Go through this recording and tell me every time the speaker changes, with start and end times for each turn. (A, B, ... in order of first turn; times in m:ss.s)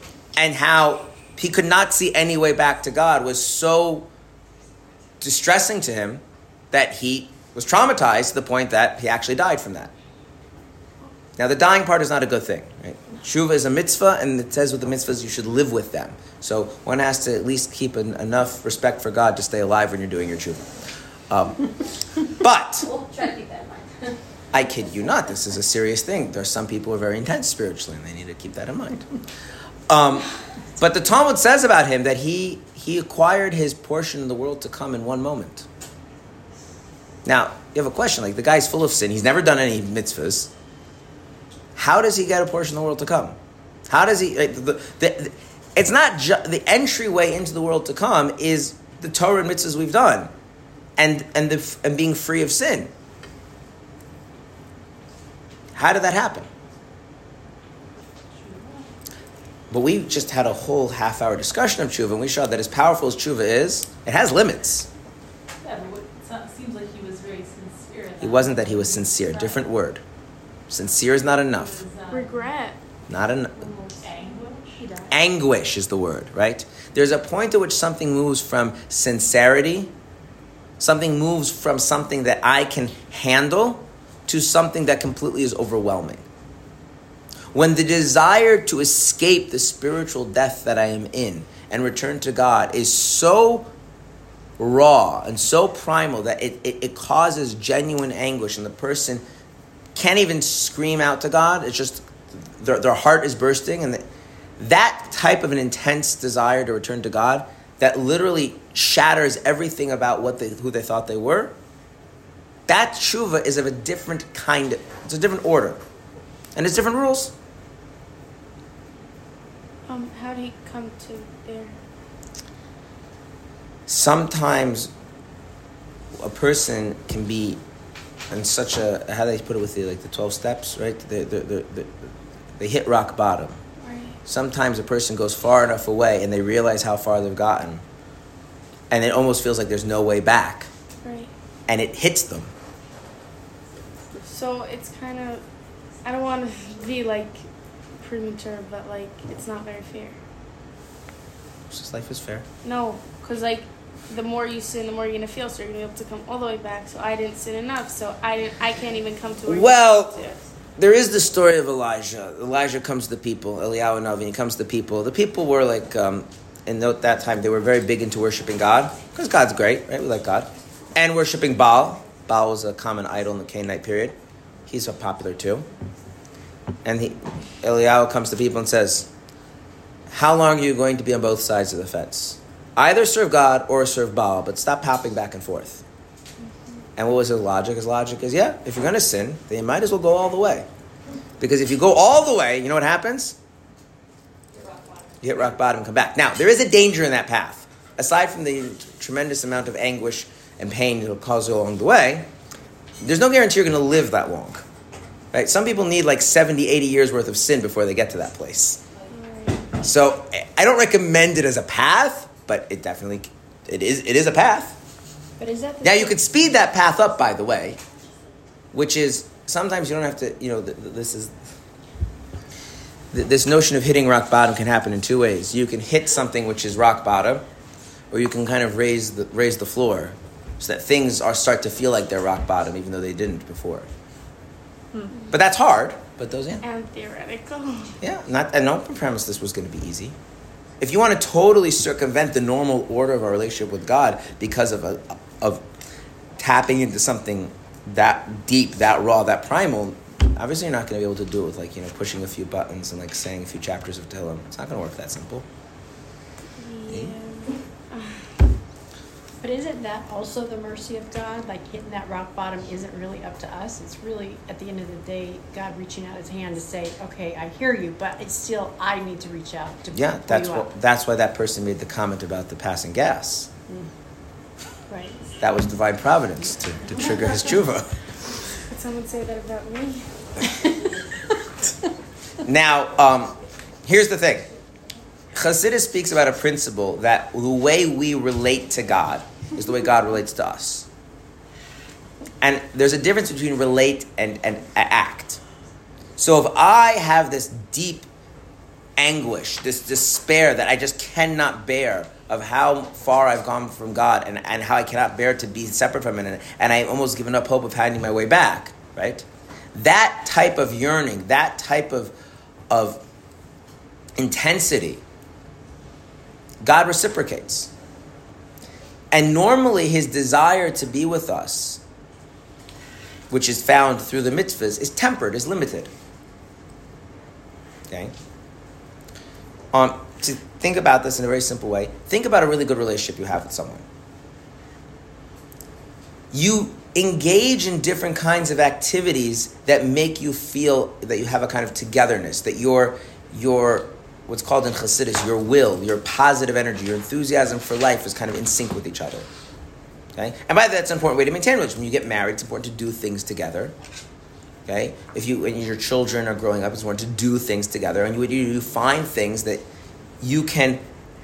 0:00.4-0:04.1 A
0:05.2-0:09.9 A
0:11.4-0:20.7 A
0:21.3-0:22.9 A
0:22.8-0:24.2 B
0:24.5-0:29.1 A
0:29.9-0:35.7 A
0:37.2-0:40.5 A
0:41.8-0:43.4 A
0:43.9-0:50.3 A
0:51.0-0:52.9 A
0:55.8-0:56.5 A
0:58.3-0:58.9 C
0:59.7-1:04.9 A
1:05.6-1:09.8 C
1:08.2-1:10.0 A
1:10.7-1:11.8 A
1:11.5-1:12.6 C
1:12.1-1:12.8 D
1:13.1-1:13.6 A
1:13.6-1:14.9 C
1:15.1-1:19.9 A
1:20.8-1:26.2 A
1:27.5-1:33.7 A
1:34.6-1:39.2 A
1:40.0-1:44.0 A
1:44.6-1:51.6 A
1:52.7-1:55.8 A
1:56.6-1:57.3 A
1:59.9-2:01.8 D
2:03.9-2:04.9 A
2:06.2-2:07.6 A
2:08.3-2:13.6 A
2:13.8-2:14.2 D
2:14.3-2:17.8 A
2:18.9-2:20.7 A
2:21.0-2:21.3 D
2:21.7-2:22.5 A
2:24.2-2:25.4 D
2:26.0-2:27.4 D
2:28.0-2:30.2 D
2:31.7-2:32.4 A
2:32.6-2:40.4 D
2:39.5-2:40.2 A
2:40.8-2:54.2 A
2:54.7-2:55.7 A
2:56.8-2:59.1 A
3:00.1-3:05.8 A
3:07.0-3:10.7 A
3:11.4-3:13.4 A
3:14.5-3:15.3 B
3:15.2-3:22.3 A
3:23.0-3:24.6 A
3:25.3-3:28.8 A
3:29.1-3:29.6 D
3:29.8-3:34.8 A
3:35.4-3:36.1 E
3:35.8-3:37.8 A
3:38.7-3:41.3 A
3:43.1-3:47.4 A
3:48.1-3:53.9 A
3:55.3-3:56.6 A
3:56.6-3:58.0 D
3:58.0-4:00.2 A
4:00.8-4:05.6 A
4:06.4-4:15.4 A
4:16.6-4:18.2 D
4:16.9-4:17.1 A
4:19.4-4:30.7 E
4:29.9-4:33.5 A
4:34.9-4:35.2 E
4:35.4-4:37.9 A
4:38.6-4:40.5 D
4:42.4-4:43.3 A
4:43.9-4:44.5 A
4:45.3-4:50.9 A
4:52.4-4:55.4 A
4:56.2-4:58.1 A
4:59.0-5:12.1 A
5:12.7-5:13.0 A
5:14.2-5:15.0 A
5:16.6-5:17.7 A
5:19.1-5:21.8 A
5:23.3-5:25.9 A
5:29.7-5:33.8 A
5:36.3-5:49.3 A
5:50.2-5:53.7 A
5:54.7-5:59.6 A
6:00.2-6:00.8 A